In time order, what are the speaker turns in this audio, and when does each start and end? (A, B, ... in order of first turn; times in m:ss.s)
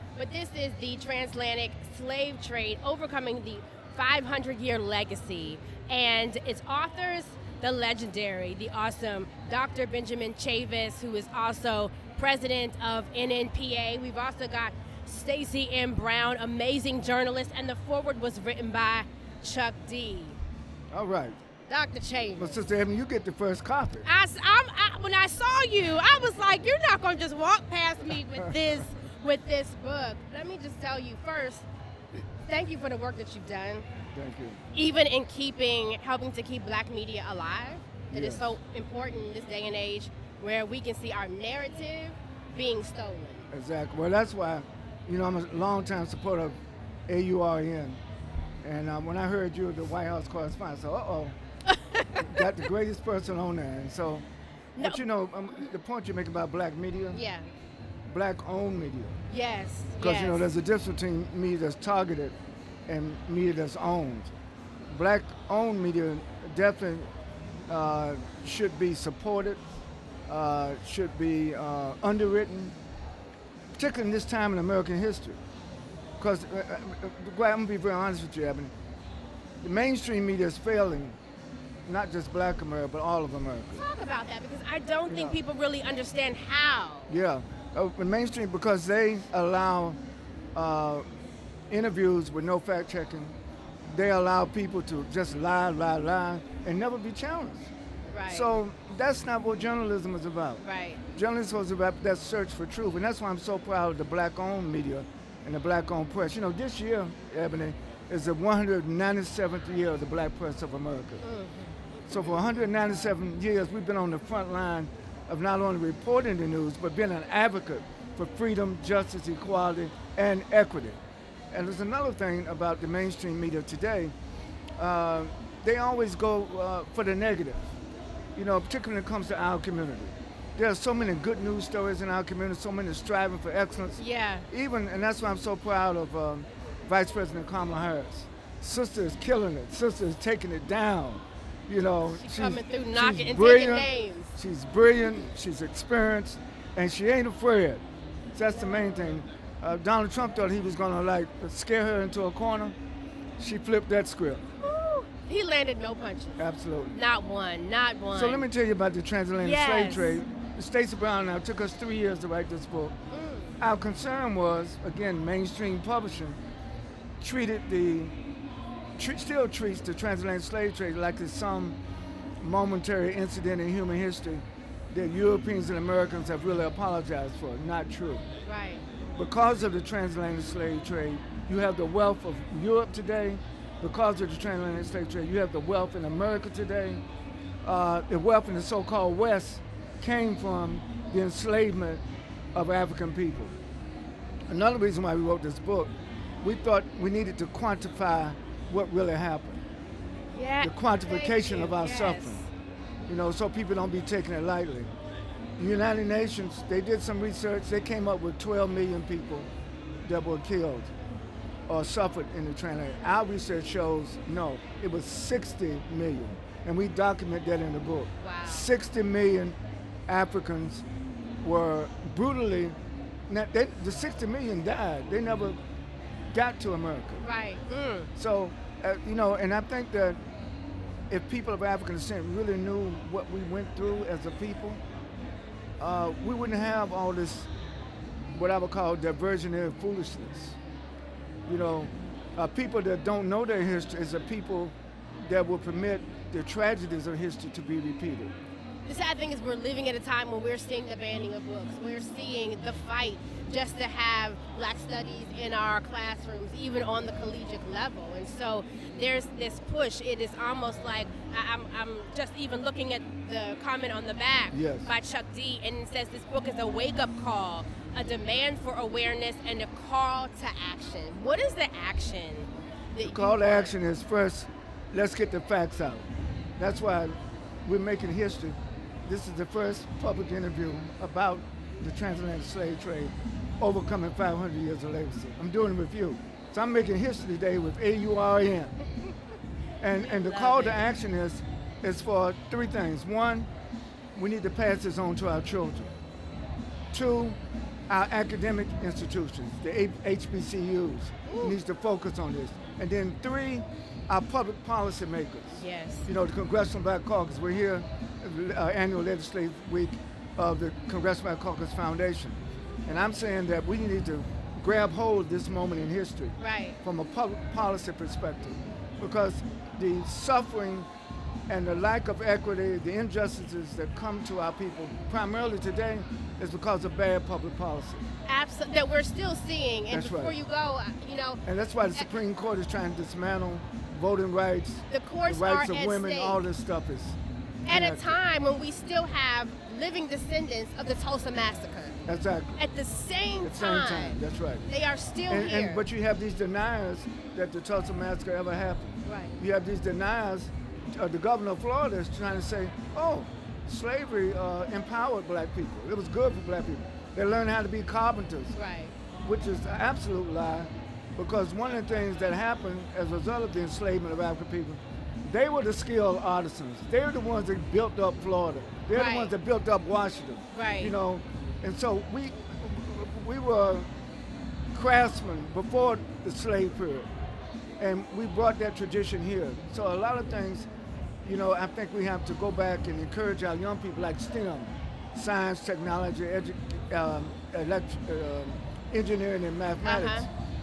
0:00.2-0:20.4 A
0:20.9-0:21.4 B
0:21.7-0:22.6 A
0:22.3-0:24.1 B
0:24.0-0:31.6 A
0:32.4-0:33.9 A
0:34.1-0:34.6 B
0:34.7-0:43.5 A
0:38.1-0:38.5 B
0:43.5-0:46.6 B
0:47.1-0:48.0 B
0:48.6-0:51.4 B
0:51.7-0:52.4 A
0:52.2-0:54.2 B
0:54.7-0:55.0 A
0:54.8-0:57.2 B
0:57.1-0:57.5 A
0:58.1-0:59.2 B
0:59.3-1:00.5 A
1:00.0-1:02.3 B
1:02.9-1:04.3 B
1:04.9-1:07.1 B
1:07.7-1:09.6 B
1:10.3-1:12.7 B
1:13.8-1:15.4 B
1:16.2-1:18.7 B
1:19.6-1:21.2 B
1:21.8-1:23.8 B
1:23.7-1:27.1 A
1:25.1-1:25.4 B
1:27.1-1:30.0 B
1:30.5-1:31.0 B
1:31.7-1:37.7 B
1:38.1-1:38.5 A
1:38.3-1:40.6 B
1:40.6-1:41.0 A
1:41.1-1:51.2 B
1:51.2-1:52.0 A
1:52.1-2:01.0 B
2:01.5-2:04.1 B
2:04.8-2:07.7 B
2:08.4-2:27.8 B
2:14.0-2:14.5 A
2:22.0-2:24.4 A
2:28.3-2:32.8 B
2:33.4-2:34.5 B
2:34.6-2:36.4 A
2:36.4-2:37.0 B
2:36.9-2:38.5 A
2:38.1-2:42.9 B
2:39.4-2:40.2 A
2:43.1-2:43.6 A
2:43.6-2:46.4 B
2:47.2-2:48.1 B
2:49.0-2:51.8 B
2:52.4-2:58.2 B
2:58.4-2:58.8 A
2:59.2-3:07.0 B
3:07.6-3:12.0 B
3:12.5-3:13.5 B
3:14.5-3:19.6 B
3:20.3-3:22.5 A
3:20.6-3:22.4 B
3:23.1-3:24.9 B
3:25.6-3:29.5 B
3:30.0-3:30.9 B
3:31.7-3:39.6 B
3:38.2-3:38.7 A
3:40.1-3:40.8 B
3:41.4-3:42.7 B
3:43.3-3:45.6 B
3:46.3-3:47.2 B
3:47.2-3:48.1 A
3:48.2-3:50.2 B
3:51.1-3:54.8 B
3:55.8-3:57.5 B
3:58.3-4:00.6 B
4:01.5-4:08.3 B
4:08.8-4:33.8 A
4:24.5-4:24.9 B
4:33.0-4:36.0 B
4:36.6-4:48.8 B
4:49.8-4:53.5 B
4:49.9-4:50.9 A
4:54.1-4:55.9 B
4:56.9-4:57.4 B
4:57.9-5:20.9 B
5:01.2-5:01.6 A
5:05.6-5:06.1 A
5:16.4-5:16.8 A
5:21.5-5:28.0 B
5:28.2-5:31.4 A
5:29.9-5:30.4 B
5:31.4-5:38.2 B
5:34.9-5:36.4 A
5:37.7-5:42.0 A
5:42.0-5:42.6 B
5:42.6-5:45.8 A
5:43.4-5:44.6 B
5:45.3-5:58.6 B
5:49.0-5:49.4 A
5:58.5-5:58.9 A
5:59.2-6:13.9 B
6:08.9-6:09.3 A
6:10.5-6:10.9 A
6:14.7-6:17.1 B
6:17.8-6:20.7 B
6:21.2-6:30.3 B
6:29.8-6:30.3 A